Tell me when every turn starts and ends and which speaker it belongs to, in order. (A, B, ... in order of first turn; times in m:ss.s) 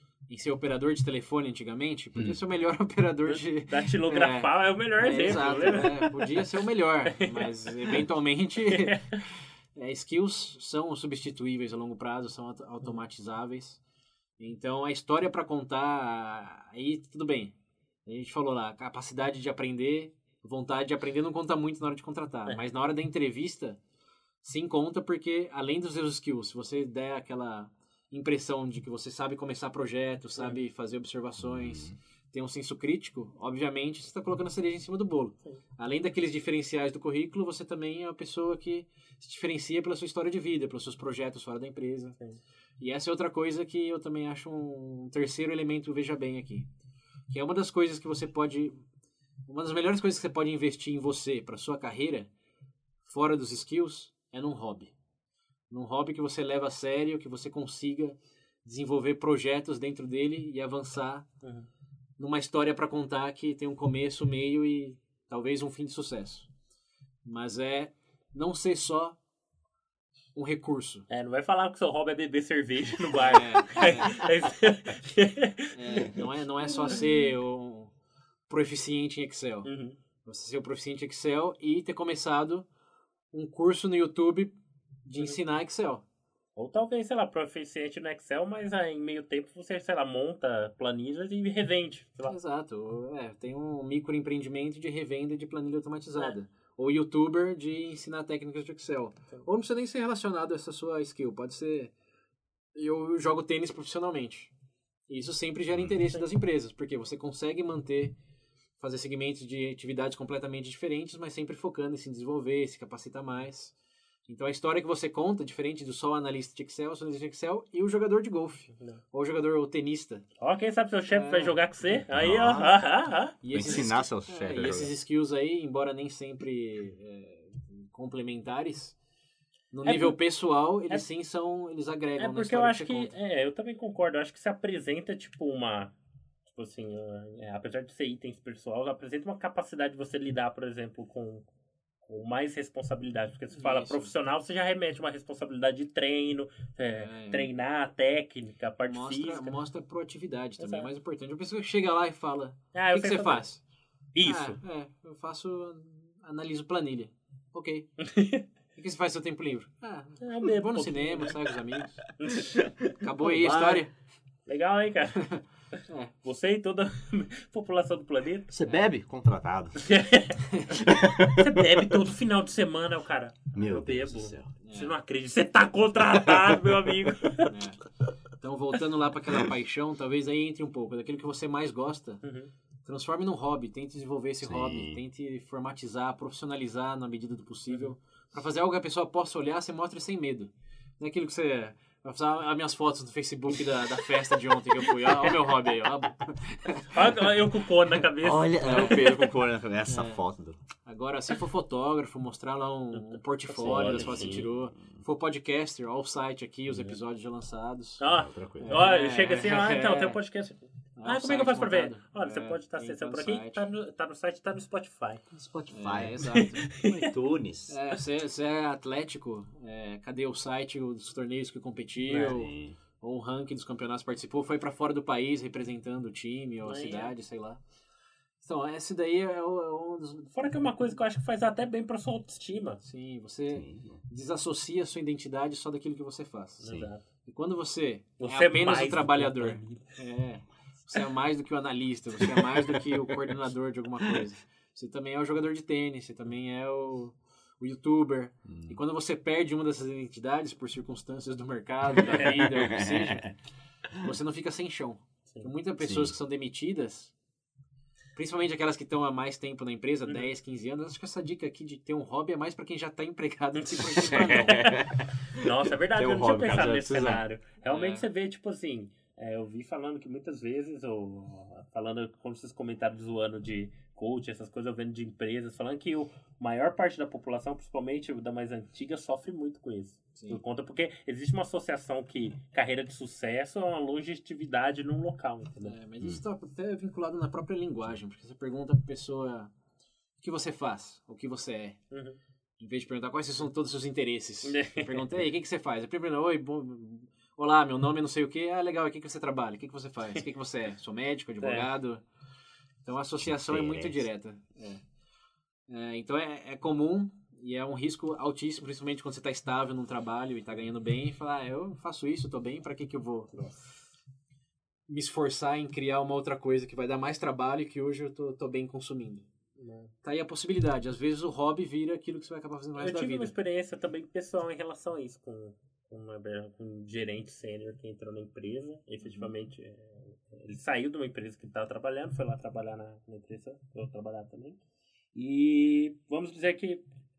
0:00.3-0:09.2 A
0:03.3-0:06.5 B
0:07.1-0:08.0 B
0:08.6-0:09.2 B
0:09.8-0:13.8 A
0:14.4-0:23.8 A
0:24.4-0:42.2 A
0:31.4-0:32.0 C
0:42.8-0:46.7 A
0:47.3-0:48.8 A
0:49.5-0:52.3 A
0:53.0-0:54.9 A
0:55.7-1:01.3 A
1:02.2-1:06.5 A
1:07.2-1:09.2 A
1:10.3-1:11.1 A
1:11.1-1:16.2 B
1:13.3-1:14.0 A
1:15.7-1:17.9 A
1:18.5-1:19.7 A
1:19.6-1:20.0 B
1:20.2-1:22.7 A
1:23.3-1:24.5 A
1:25.0-1:26.0 A
1:26.6-1:32.3 B
1:32.3-1:41.9 A
1:42.7-1:44.5 A
1:45.1-1:48.2 A
1:48.8-1:53.8 A
1:54.3-2:00.2 A
2:00.4-2:03.4 B
2:01.1-2:01.6 A
2:02.1-2:02.7 C
2:03.4-2:09.0 A
2:03.5-2:04.9 C
2:09.7-2:13.1 A
2:09.8-2:10.2 B
2:12.2-2:15.9 B
2:16.5-2:21.4 B
2:22.0-2:29.6 B
2:23.5-2:24.1 A
2:26.9-2:27.5 A
2:28.8-2:33.6 A
2:30.6-2:30.9 B
2:32.7-2:33.4 B
2:34.1-2:34.6 B
2:34.2-2:37.9 A
2:38.0-2:38.4 B
2:38.8-2:42.0 A
2:40.2-2:41.4 B
2:42.2-2:42.6 B
2:42.6-2:43.8 C
2:43.0-2:43.9 A
2:44.5-2:45.3 B
2:45.2-2:46.1 A
2:46.2-2:48.6 B
2:48.5-2:49.9 C
2:49.8-2:57.5 B
2:50.5-2:50.8 A
2:50.8-2:52.0 C
2:53.5-2:54.5 C
2:54.6-2:54.9 A
2:57.5-2:57.8 A
2:58.4-3:02.2 A
3:02.2-3:02.5 B
3:02.8-3:16.9 A
3:04.4-3:05.0 C
3:16.9-3:19.3 B
3:18.2-3:20.6 C
3:18.6-3:19.2 A
3:19.8-3:20.2 A
3:20.8-3:28.0 A
3:23.1-3:24.4 B
3:23.7-3:24.5 C
3:28.0-3:35.2 B
3:28.1-3:28.9 C
3:28.6-3:30.2 A
3:31.0-3:33.6 A
3:35.3-3:37.8 C
3:35.7-3:36.7 A
3:36.2-3:37.1 B
3:37.7-3:47.6 A
3:42.3-3:42.8 C
3:46.6-3:47.1 B
3:48.4-3:50.9 A
3:50.4-3:52.8 B
3:52.8-3:56.7 A
3:53.5-3:54.0 C
3:56.6-3:57.0 B
3:57.2-4:13.3 A
3:58.2-3:59.8 B
4:08.5-4:08.8 C
4:12.0-4:12.5 B
4:12.5-4:13.3 C
4:14.0-4:17.1 A
4:15.8-4:16.1 C
4:18.2-4:24.8 A
4:23.6-4:45.7 B
4:24.2-4:27.2 C
4:27.7-4:28.0 A
4:45.6-4:49.5 A
4:50.2-4:51.8 A
4:51.9-4:52.2 B
4:52.6-5:02.0 A
4:54.4-4:55.0 B
5:01.4-5:01.7 B
5:02.8-5:04.8 A
5:03.2-5:04.0 C
5:05.7-5:13.5 A
5:14.9-5:19.3 A
5:19.6-5:19.9 B
5:20.0-5:23.3 A
5:22.8-5:34.6 B
5:35.1-5:36.8 B